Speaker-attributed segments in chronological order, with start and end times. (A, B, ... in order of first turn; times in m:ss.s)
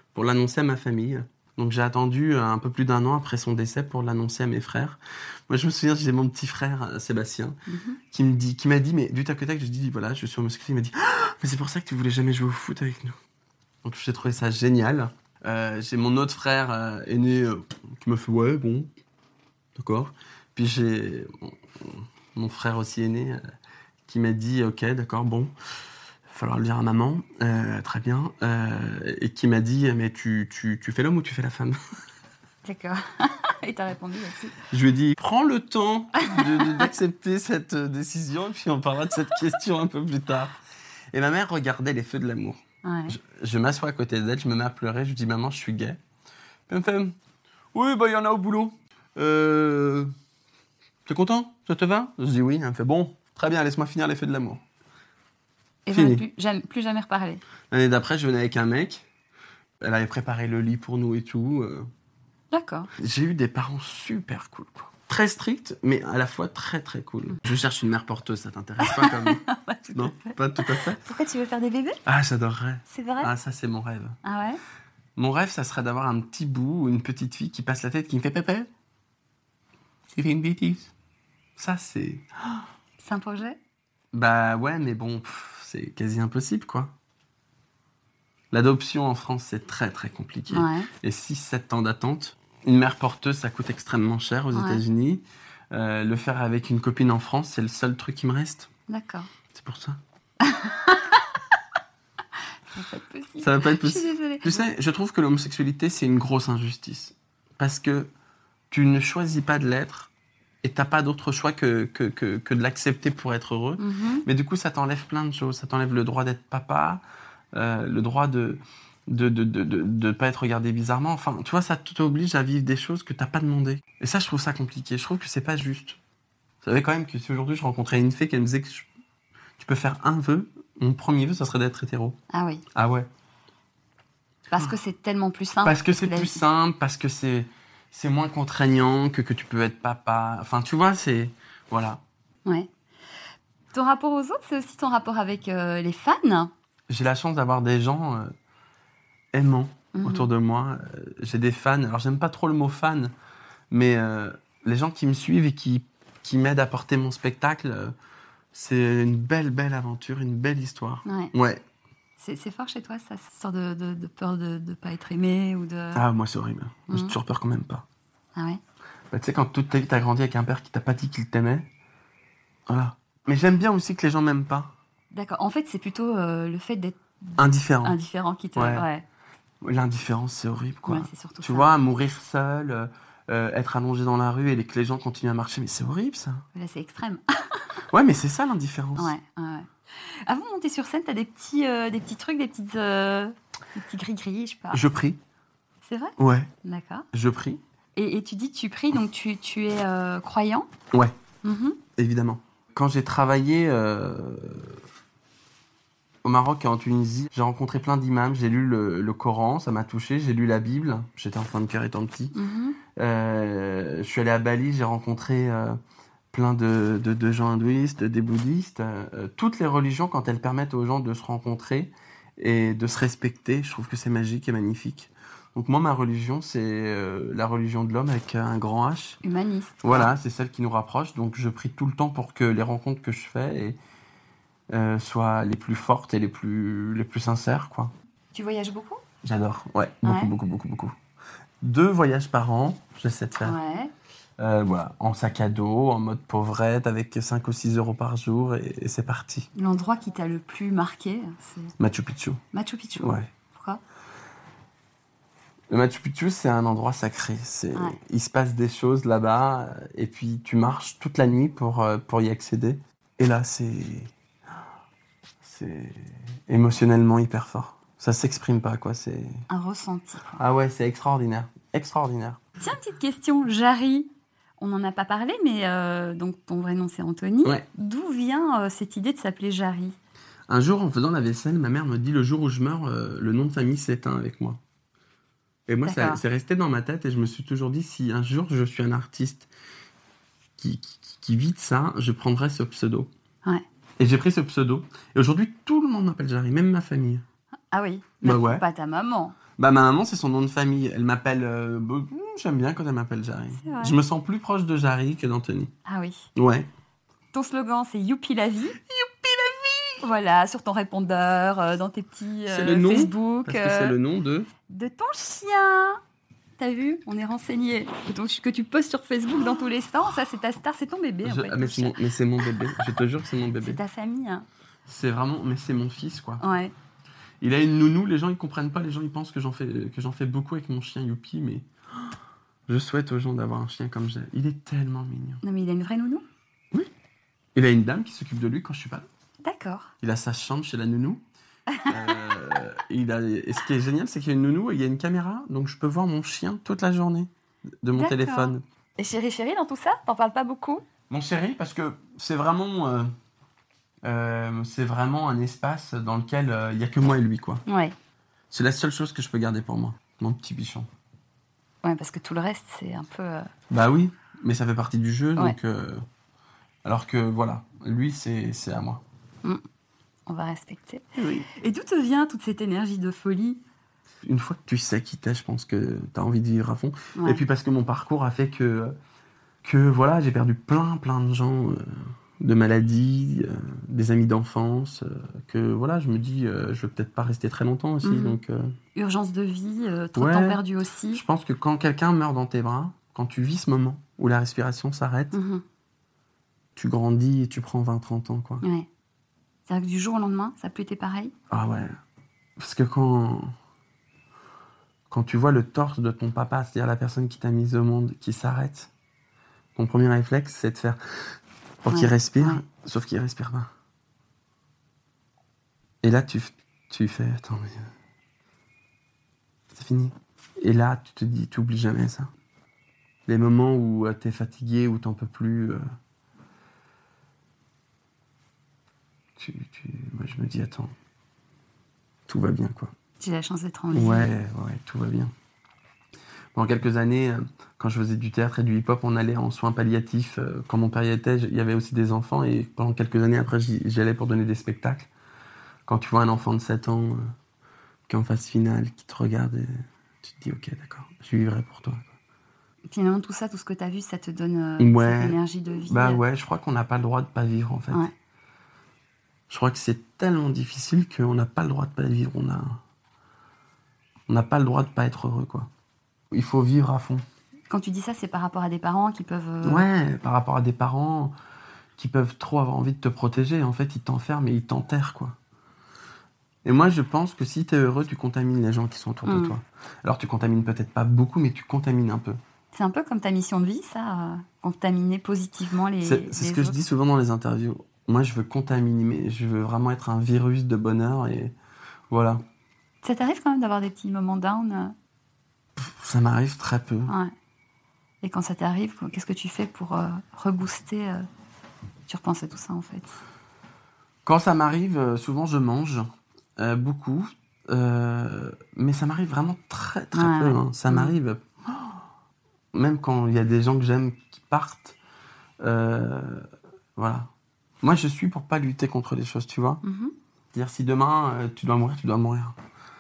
0:00.1-0:05.0 A
0:05.5-0:07.6 A
0:07.7-0:08.0 B
0:08.1-0:13.2 A
0:13.8-0:18.9 A
0:19.8-0:23.4 A
0:24.1-0:25.5 A
0:26.3-0:31.8 A
0:32.6-0:34.6 B
0:34.7-0:40.6 A
0:36.3-0:36.9 B
0:41.1-0:46.0 A
0:42.8-0:43.2 B
0:46.7-0:47.1 A
0:47.7-0:50.1 A
0:51.1-0:54.6 A
0:55.9-0:57.4 B
0:55.9-0:56.2 A
0:57.7-0:59.1 A
0:59.8-1:01.9 A
1:02.5-1:02.9 B
1:03.0-1:09.4 A
1:08.8-1:12.0 B
1:09.9-1:11.0 A
1:12.1-1:14.2 A
1:12.9-1:13.3 B
1:14.2-1:14.6 B
1:15.2-1:18.7 A
1:20.1-1:20.9 A
1:21.6-1:22.6 A
1:23.0-1:23.6 B
1:24.1-1:26.9 A
1:28.5-1:38.7 A
1:30.5-1:30.9 B
1:34.5-1:34.8 B
1:38.9-1:39.3 B
1:39.5-1:40.0 A
1:40.4-1:41.4 B
1:42.7-1:44.7 B
1:43.4-1:48.1 A
1:48.7-1:50.1 A
1:50.6-1:57.0 A
1:53.8-1:54.3 B
1:57.5-2:06.0 A
2:06.6-2:08.9 A
2:09.6-2:12.2 A
2:12.3-2:12.6 B
2:12.8-2:13.1 A
2:14.5-2:16.4 B
2:15.6-2:22.0 A
2:22.4-2:22.7 B
2:23.7-2:26.5 B
2:26.9-2:28.3 A
2:29.3-2:33.1 A
2:29.9-2:30.3 B
2:33.7-2:37.9 A
2:38.5-2:41.6 A
2:41.1-2:41.3 B
2:42.2-2:46.0 B
2:45.9-2:47.8 A
2:46.9-2:47.2 B
2:48.4-2:48.6 B
2:49.1-2:51.7 A
2:52.7-2:54.7 A
2:55.1-2:59.0 B
2:57.4-2:58.0 A
2:58.6-2:58.9 A
2:59.6-3:06.4 A
3:00.9-3:01.7 B
3:06.5-3:07.7 B
3:07.9-3:09.1 A
3:09.0-3:14.9 B
3:14.7-3:15.2 A
3:15.8-3:17.1 B
3:16.2-3:16.5 A
3:17.1-3:17.6 A
3:18.0-3:20.7 B
3:21.4-3:21.8 B
3:22.0-3:24.8 A
3:26.2-3:32.4 A
3:32.3-3:32.8 B
3:33.0-3:35.8 A
3:36.3-3:49.2 A
3:49.2-3:50.1 B
3:49.8-3:53.8 A
3:54.7-3:57.9 A
3:58.3-3:59.0 B
3:59.2-4:01.0 A
4:00.0-4:00.3 B
4:01.6-4:03.6 A
4:03.4-4:03.9 B
4:04.4-4:09.5 A
4:09.6-4:11.7 B
4:11.8-4:12.4 A
4:12.5-4:13.8 B
4:13.0-4:13.3 A
4:15.7-4:24.1 A
4:25.4-4:29.4 A
4:29.5-4:30.4 B
4:30.4-4:32.4 A
4:32.6-4:40.0 B
4:40.5-4:44.6 A
4:45.7-4:49.5 A
4:45.8-4:46.2 B
4:50.6-4:53.1 A
4:54.0-4:57.2 A
4:57.7-4:59.4 B
4:58.2-4:58.6 A
4:59.6-5:05.7 A
5:03.6-5:04.0 B
5:05.9-5:06.3 B
5:06.4-5:06.7 A
5:07.3-5:08.8 B
5:08.9-5:10.0 A
5:10.0-5:14.0 B
5:12.5-5:14.5 A
5:14.7-5:16.0 B
5:16.6-5:22.0 B
5:21.2-5:23.8 A
5:23.6-5:24.5 B
5:24.9-5:26.4 A
5:26.4-5:26.7 B
5:27.4-5:31.7 A
5:32.7-5:35.4 A
5:35.4-5:36.3 B
5:37.6-5:39.1 A
5:39.4-5:39.9 B
5:40.0-5:41.2 A
5:41.7-5:42.2 B
5:41.8-5:47.3 A
5:47.8-5:48.6 A
5:47.9-5:50.8 B
5:51.1-5:53.1 A
5:54.0-5:57.6 A
5:57.7-5:58.0 B
5:58.5-6:00.9 A
6:01.8-6:03.5 B
6:03.7-6:06.0 A
6:06.8-6:09.0 A
6:10.3-6:13.6 B
6:11.2-6:11.5 A
6:14.2-6:19.0 A
6:17.2-6:17.4 B
6:19.6-6:28.8 A
6:28.0-6:28.4 B
6:29.0-6:31.2 B
6:30.2-6:30.6 A
6:31.1-6:35.4 A
6:35.3-6:35.6 B
6:36.8-6:38.6 A
6:38.6-6:38.9 B
6:39.7-6:41.3 B
6:41.5-6:42.0 A
6:42.6-6:43.5 A
6:45.1-6:48.9 A
6:49.8-6:51.0 A
6:51.8-6:53.7 A
6:51.9-6:52.6 B
6:56.0-6:57.9 A
6:59.7-7:02.3 A
7:03.3-7:05.8 A
7:09.4-7:10.9 A
7:12.3-7:12.9 A
7:13.2-7:14.3 B
7:13.9-7:15.3 A
7:16.6-7:25.1 A
7:25.9-7:27.3 A
7:28.1-7:29.7 A
7:30.2-7:32.1 A
7:32.9-7:36.2 B
7:34.8-7:38.1 A
7:39.5-7:42.8 A
7:44.3-7:45.7 A
7:46.3-7:47.2 A
7:47.7-7:49.9 B
7:49.6-7:51.3 A
7:52.0-7:55.4 A
7:56.6-8:02.4 A
7:59.2-7:59.6 B
8:02.7-8:06.8 B
8:06.0-8:11.6 A
8:12.1-8:12.4 A
8:13.0-8:15.0 B
8:15.8-8:17.1 A
8:17.1-8:17.3 B
8:18.2-8:21.2 B
8:22.1-8:23.2 B
8:24.2-8:32.0 A
8:30.1-8:31.2 B
8:32.7-8:35.0 A
8:35.6-8:36.4 A
8:37.0-8:37.3 A
8:37.8-8:39.8 A
8:39.8-8:40.1 B
8:40.5-8:42.6 A